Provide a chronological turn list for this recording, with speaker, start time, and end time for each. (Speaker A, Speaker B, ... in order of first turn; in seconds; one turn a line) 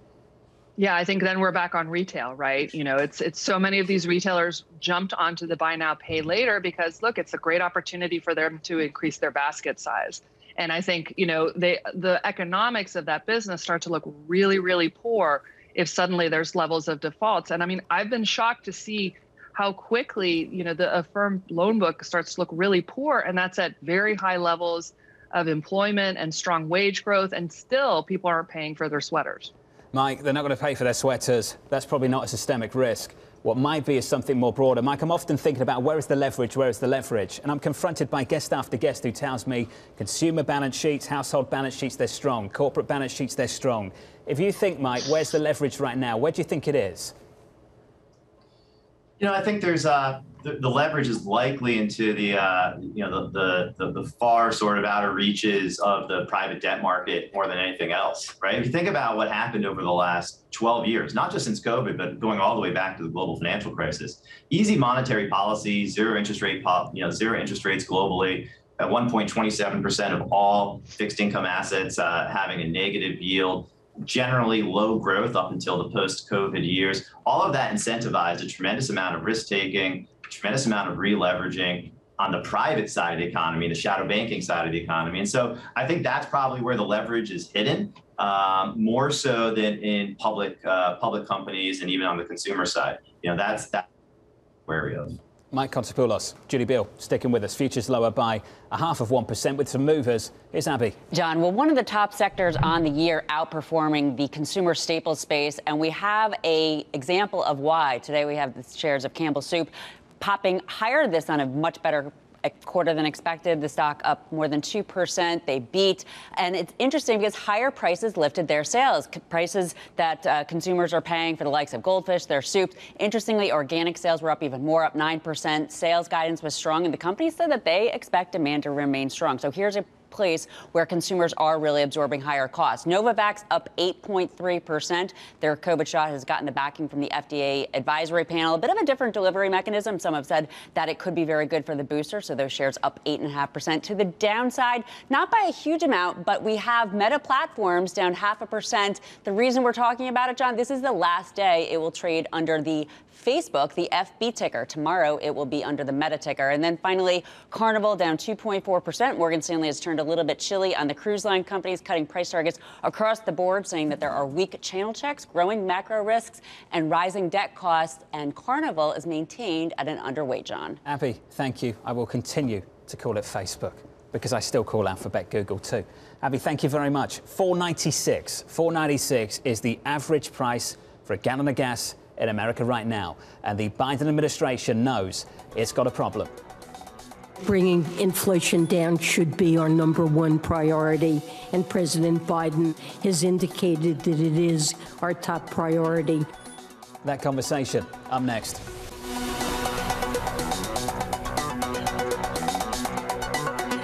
Speaker A: 0.8-29.5
Speaker B: 29.9-47.1
Speaker C: 49.2-93.9
Speaker C: 94.7-95.2
Speaker B: 95.5-101.0
Speaker D: 101.1-170.8
Speaker B: 170.8-186.3
Speaker E: 187.4-196.2
Speaker B: 197.0-198.6